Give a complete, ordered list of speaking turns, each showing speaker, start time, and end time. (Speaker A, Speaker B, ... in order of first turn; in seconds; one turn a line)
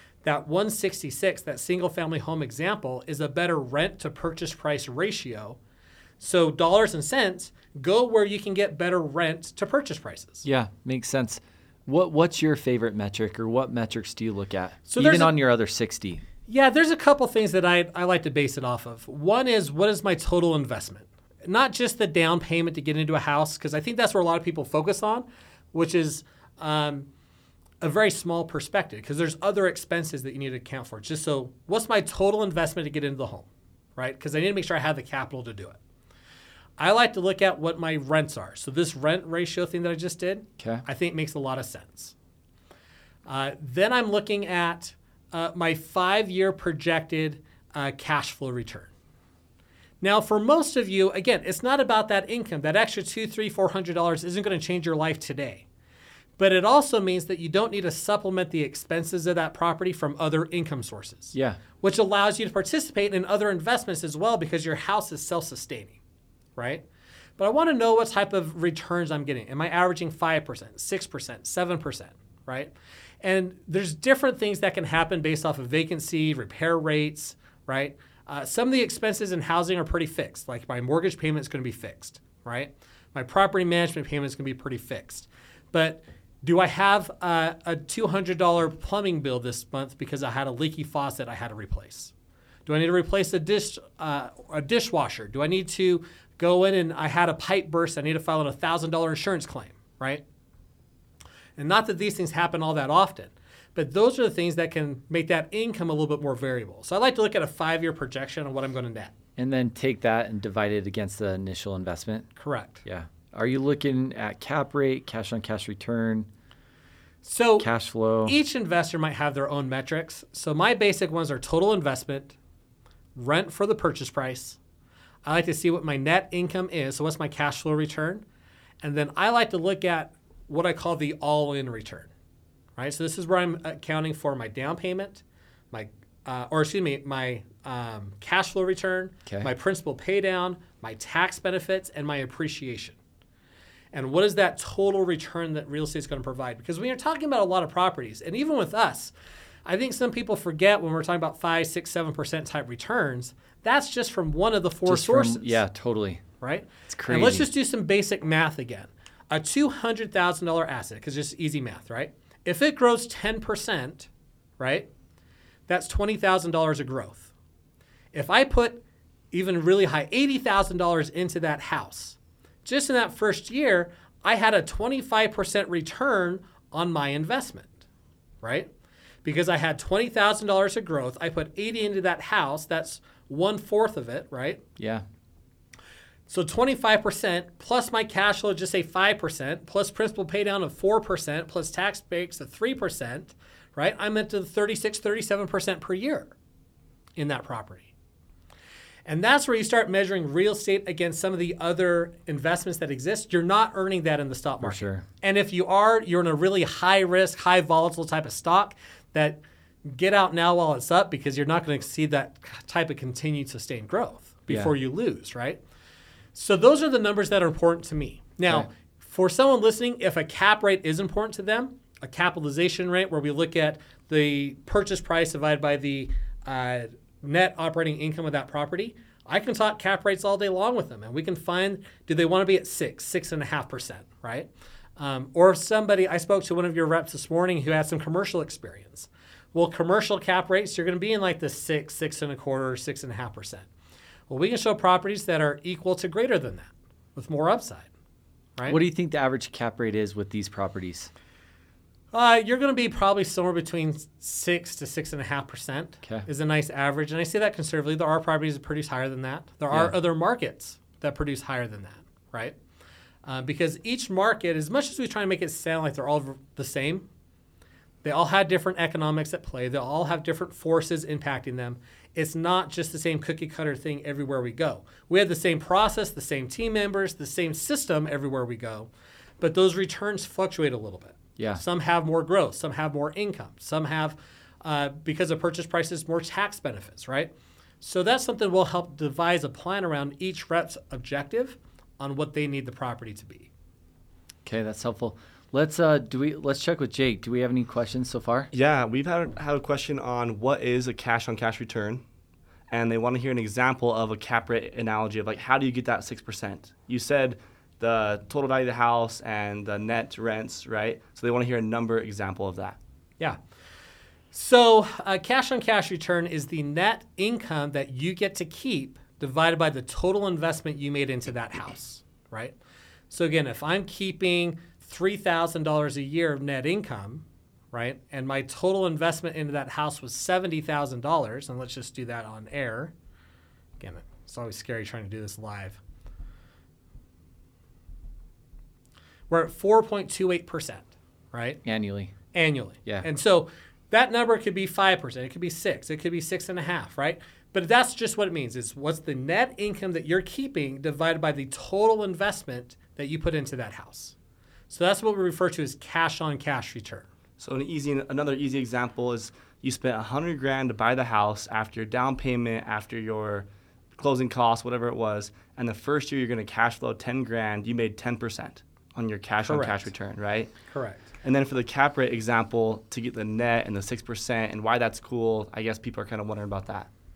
Speaker A: 0.2-5.6
Speaker A: 6.2-10.4
Speaker B: 10.4-16.2
Speaker A: 14.9-15.3
Speaker A: 16.5-27.1
Speaker A: 27.8-35.8
Speaker A: 36.8-42.1
Speaker B: 40.6-40.8
Speaker A: 43.2-48.9
Speaker A: 50.0-55.6
Speaker A: 56.4-66.0
Speaker B: 61.3-61.6
Speaker A: 66.6-66.8
Speaker A: 67.4-92.1
Speaker A: 92.7-100.2
Speaker A: 101.6-109.1
Speaker B: 109.4-112.3
Speaker A: 112.3-112.8
Speaker B: 112.8-116.3
Speaker A: 117.2-117.7
Speaker B: 117.6-118.3
Speaker A: 118.2-122.3
Speaker A: 123.1-124.6
Speaker A: 125.2-128.2
Speaker A: 128.8-132.1
Speaker A: 132.8-142.9
Speaker A: 143.9-149.1
Speaker A: 149.7-155.6
Speaker B: 154.9-156.2
Speaker A: 156.4-164.9
Speaker B: 156.9-157.5
Speaker A: 165.7-167.3
Speaker A: 168.1-177.7
Speaker A: 178.4-178.7
Speaker A: 179.2-184.6
Speaker B: 184.8-185.0
Speaker A: 186.3-196.3
Speaker A: 197.2-197.9
Speaker A: 199.1-215.6
Speaker B: 204.6-205.0
Speaker A: 216.3-243.6
Speaker A: 244.3-247.9
Speaker B: 248.7-251.1
Speaker A: 252.1-262.6
Speaker A: 263.2-267.1
Speaker A: 268.0-278.9
Speaker A: 279.4-293.5
Speaker B: 281.4-281.6
Speaker B: 294.4-298.5
Speaker C: 298.5-302.0
Speaker C: 302.7-312.8
Speaker A: 314.3-322.6
Speaker A: 323.1-332.9
Speaker A: 333.8-335.8
Speaker A: 339.3-341.6
Speaker B: 341.6-342.1
Speaker A: 342.3-354.1
Speaker A: 354.7-357.1
Speaker C: 357.4-363.4
Speaker C: 364.0-370.5
Speaker A: 369.4-369.9
Speaker A: 370.7-371.0
Speaker C: 371.2-376.9